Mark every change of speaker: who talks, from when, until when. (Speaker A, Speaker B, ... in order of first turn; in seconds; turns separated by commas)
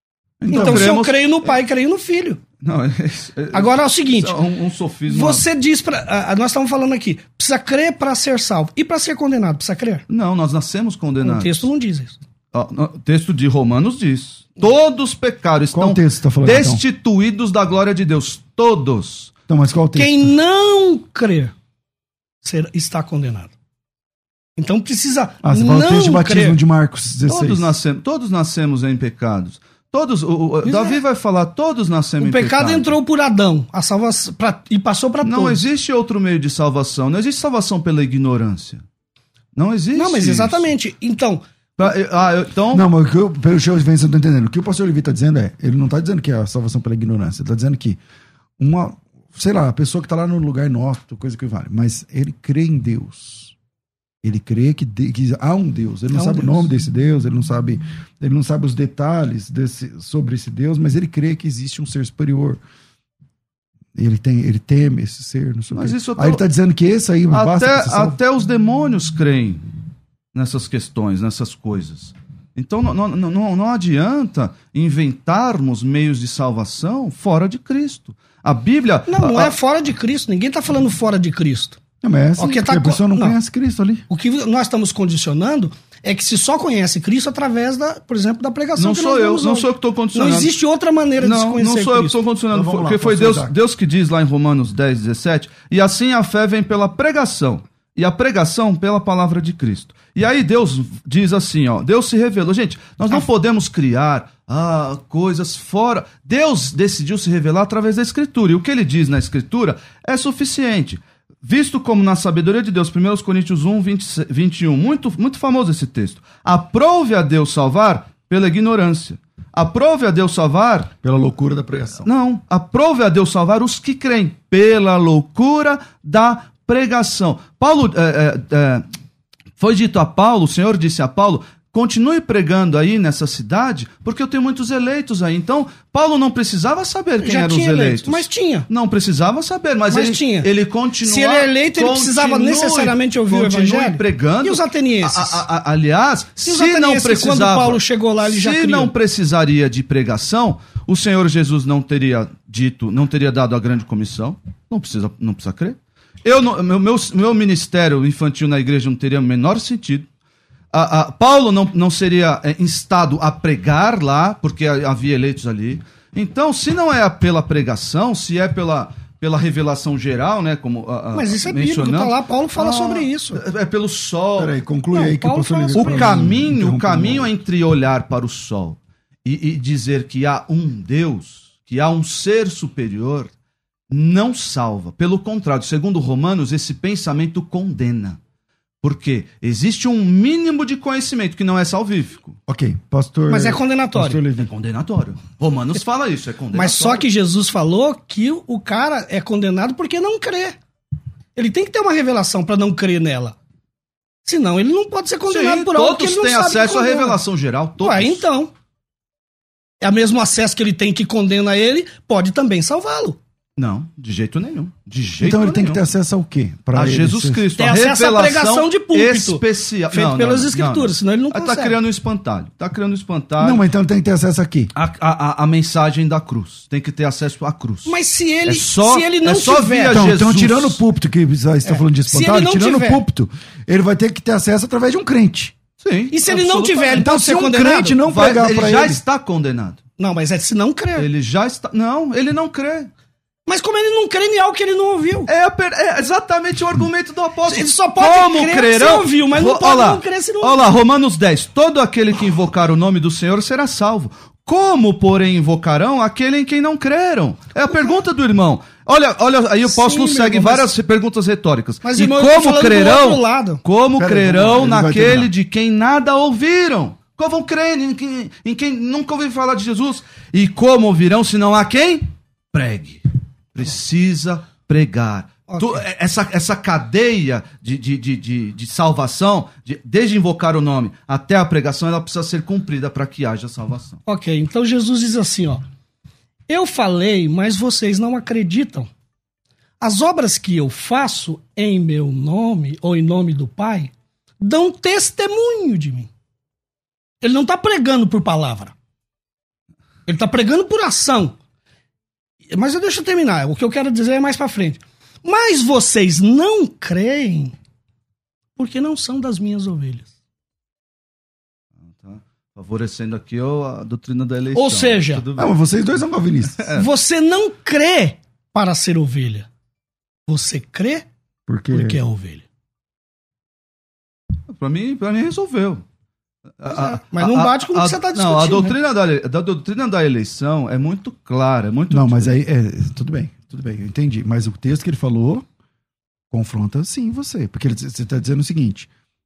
Speaker A: 0.4-1.6, Speaker B: 0.5-0.9, Speaker C: 0.5-2.4, Speaker A: 2.6-5.4, Speaker C: 3.5-4.4, Speaker C: 5.1-10.0, Speaker A: 10.1-11.7, Speaker C: 11.2-12.2, Speaker A: 12.5-19.3, Speaker B: 15.7-16.8, Speaker B: 19.5-20.3, Speaker C: 19.9-21.5, Speaker C: 22.4-23.5, Speaker C: 24.6-26.6, Speaker B: 25.4-27.7, Speaker A: 27.2-32.9, Speaker C: 30.6-31.0, Speaker C: 32.2-35.6, Speaker A: 35.2-38.8, Speaker A: 39.5-40.6, Speaker C: 39.9-41.4, Speaker A: 41.8-42.9, Speaker B: 42.7-48.0, Speaker B: 48.6-53.5, Speaker B: 54.2-62.6, Speaker C: 56.1-56.6, Speaker B: 63.9-68.2, Speaker A: 65.7-66.4, Speaker A: 67.3-69.7, Speaker A: 70.3-79.5, Speaker C: 79.1-81.8, Speaker B: 82.0-84.0, Speaker C: 82.4-83.4, Speaker C: 84.1-92.2, Speaker A: 88.8-90.5, Speaker A: 91.2-120.9, Speaker B: 92.5-93.5, Speaker B: 121.0-122.1, Speaker A: 121.9-128.8, Speaker A: 129.6-160.1, Speaker C: 137.2-138.7, Speaker C: 139.9-140.5, Speaker C: 141.0-145.4, Speaker C: 146.4-148.9, Speaker A: 160.7-174.6, Speaker C: 171.1-173.4, Speaker B: 174.4-177.3, Speaker C: 174.9-176.2, Speaker A: 175.8-183.3, Speaker A: 183.9-188.2, Speaker A: 188.8-192.4, Speaker B: 192.5-194.5, Speaker C: 193.3-194.2, Speaker A: 194.4-197.0, Speaker C: 196.5-200.6, Speaker C: 201.3-203.3, Speaker C: 204.2-207.2, Speaker A: 205.3-208.2, Speaker C: 207.8-208.5, Speaker C: 209.8-213.2, Speaker A: 213.6-215.8, Speaker B: 215.2-217.4, Speaker A: 216.7-223.6, Speaker C: 217.6-221.8, Speaker B: 223.4-224.7, Speaker A: 224.7-227.9, Speaker C: 227.8-230.0, Speaker A: 228.4-230.8, Speaker B: 229.9-235.5, Speaker C: 231.6-233.0, Speaker A: 235.8-237.1, Speaker C: 236.1-238.0, Speaker B: 236.9-239.0, Speaker A: 238.1-239.8, Speaker C: 240.0-241.1, Speaker A: 240.9-242.9, Speaker C: 243.5-245.3, Speaker A: 245.3-284.0, Speaker C: 247.5-250.8, Speaker C: 259.6-260.7, Speaker C: 261.8-263.6, Speaker B: 264.0-265.3, Speaker C: 275.5-275.8, Speaker C: 284.1-285.6, Speaker C: 286.5-288.9, Speaker C: 289.8-296.1, Speaker C: 297.2-298.7, Speaker C: 300.1-301.4, Speaker C: 302.5-307.5, Speaker C: 308.6-310.1, Speaker A: 311.9-315.9, Speaker C: 314.5-315.2, Speaker B: 315.4-316.6, Speaker A: 316.6-316.9, Speaker C: 316.8-319.5, Speaker C: 320.3-321.0, Speaker B: 321.5-322.0, Speaker C: 321.7-322.4, Speaker A: 324.5-325.8, Speaker A: 326.6-332.4, Speaker C: 326.6-328.8, Speaker B: 331.9-335.4, Speaker B: 336.3-338.9